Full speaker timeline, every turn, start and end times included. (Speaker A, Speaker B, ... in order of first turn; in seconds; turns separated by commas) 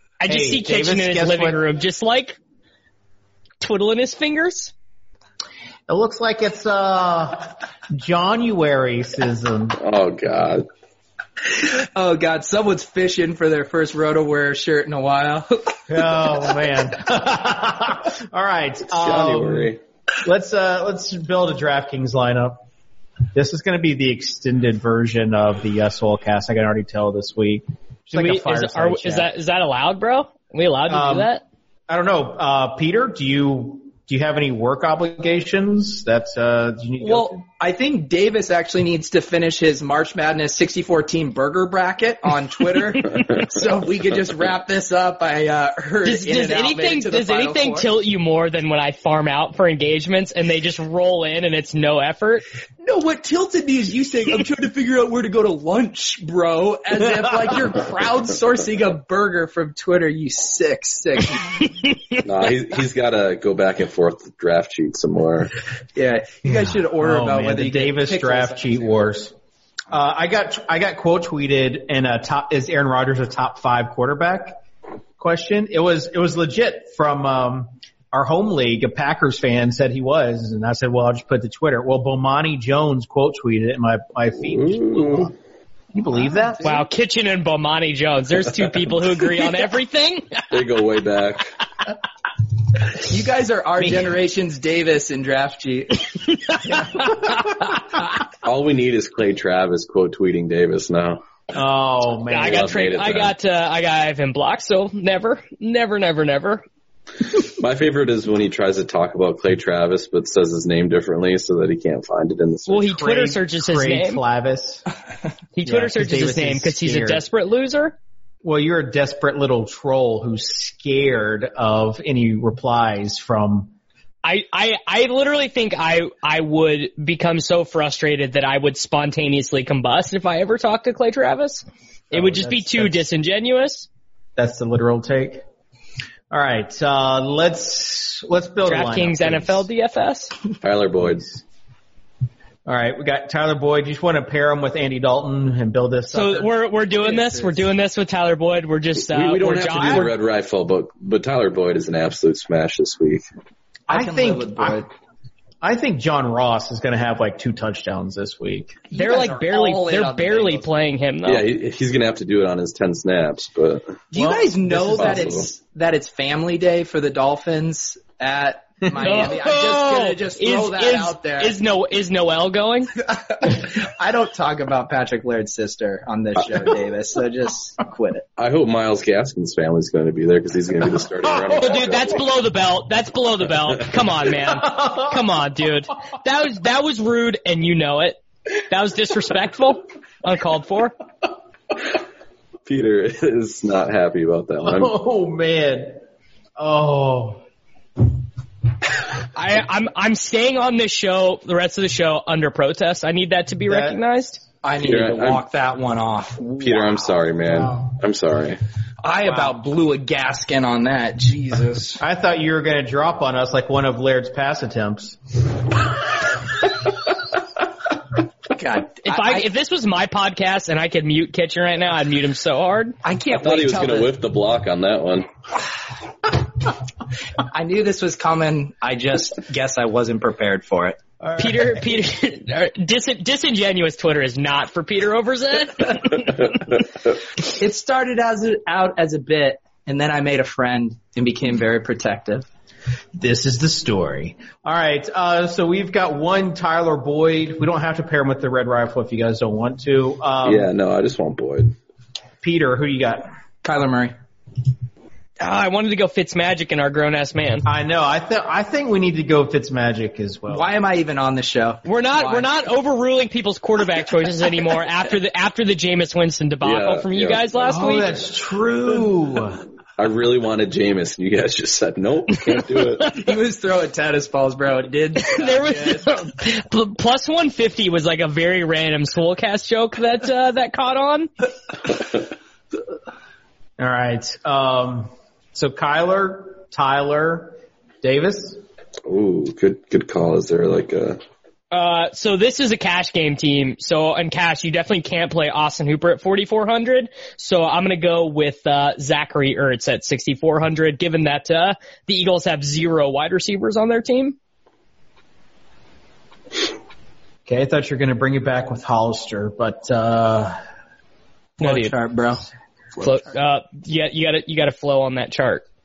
Speaker A: 0.2-2.4, Speaker B: 0.3-1.6, Speaker A: 3.6-4.7, Speaker B: 5.9-9.8, Speaker C: 9.8-10.7, Speaker D: 11.5-15.8, Speaker B: 15.9-22.6, Speaker C: 18.9-19.8, Speaker B: 23.3-29.3, Speaker A: 28.1-31.4, Speaker B: 30.9-31.3, Speaker B: 31.9-37.4, Speaker D: 37.0-47.9, Speaker A: 46.0-52.4, Speaker D: 52.8-61.6, Speaker C: 62.2-65.5, Speaker D: 66.0-69.1, Speaker B: 66.4-69.3, Speaker B: 69.9-74.6, Speaker B: 75.2-85.3, Speaker C: 84.4-85.3, Speaker B: 85.9-86.7, Speaker D: 86.5-86.8, Speaker A: 86.6-90.4, Speaker C: 90.5-91.5, Speaker D: 93.0-96.1, Speaker B: 96.7-97.1, Speaker C: 98.4-101.2, Speaker B: 101.5-102.7, Speaker A: 102.3-106.6, Speaker C: 102.4-103.3, Speaker C: 107.3-113.0, Speaker A: 112.7-114.2, Speaker B: 113.0-114.8, Speaker A: 115.5-118.0, Speaker B: 115.7-117.2, Speaker B: 118.4-123.7, Speaker A: 124.2-133.9, Speaker B: 132.1-133.0, Speaker B: 134.4-135.4, Speaker B: 136.3-139.6, Speaker A: 138.7-140.3, Speaker C: 140.6-141.3, Speaker B: 142.7-146.5, Speaker A: 146.1-150.1, Speaker D: 146.9-147.6, Speaker C: 149.0-153.2, Speaker B: 153.9-154.8, Speaker D: 153.9-154.9, Speaker B: 155.6-158.9, Speaker D: 158.9-160.7, Speaker A: 158.9-161.4, Speaker C: 161.2-164.1, Speaker D: 164.1-171.6, Speaker B: 164.1-165.1, Speaker C: 164.6-165.5, Speaker A: 169.0-172.9, Speaker D: 173.1-178.2, Speaker C: 178.4-182.2, Speaker B: 181.4-181.7, Speaker A: 181.6-188.2, Speaker B: 184.7-185.1, Speaker A: 188.7-190.9, Speaker C: 192.7-194.9, Speaker B: 194.6-196.0, Speaker B: 196.6-197.4, Speaker A: 199.3-204.4, Speaker B: 203.7-204.0, Speaker D: 204.6-207.1, Speaker C: 204.8-205.4, Speaker C: 206.6-208.6, Speaker D: 209.0-212.0, Speaker B: 209.2-209.5, Speaker B: 212.0-215.2, Speaker D: 218.6-219.4, Speaker A: 219.0-222.9, Speaker D: 223.0-224.1, Speaker C: 223.3-225.3, Speaker D: 227.4-231.0, Speaker B: 231.2-231.8, Speaker A: 231.4-236.5, Speaker D: 237.4-242.4, Speaker B: 243.2-250.7, Speaker C: 250.4-251.7, Speaker B: 252.4-253.3, Speaker D: 253.6-254.1, Speaker A: 255.4-257.6, Speaker B: 257.6-260.6, Speaker D: 260.5-262.5, Speaker A: 261.8-268.1, Speaker C: 266.6-267.9, Speaker B: 267.7-269.6, Speaker C: 270.0-273.2, Speaker D: 273.1-276.1, Speaker A: 275.2-281.3, Speaker B: 283.8-288.6, Speaker C: 289.1-291.2, Speaker A: 291.7-304.4, Speaker B: 307.5-310.5, Speaker A: 311.6-311.9, Speaker D: 311.6-312.5, Speaker A: 313.0-315.6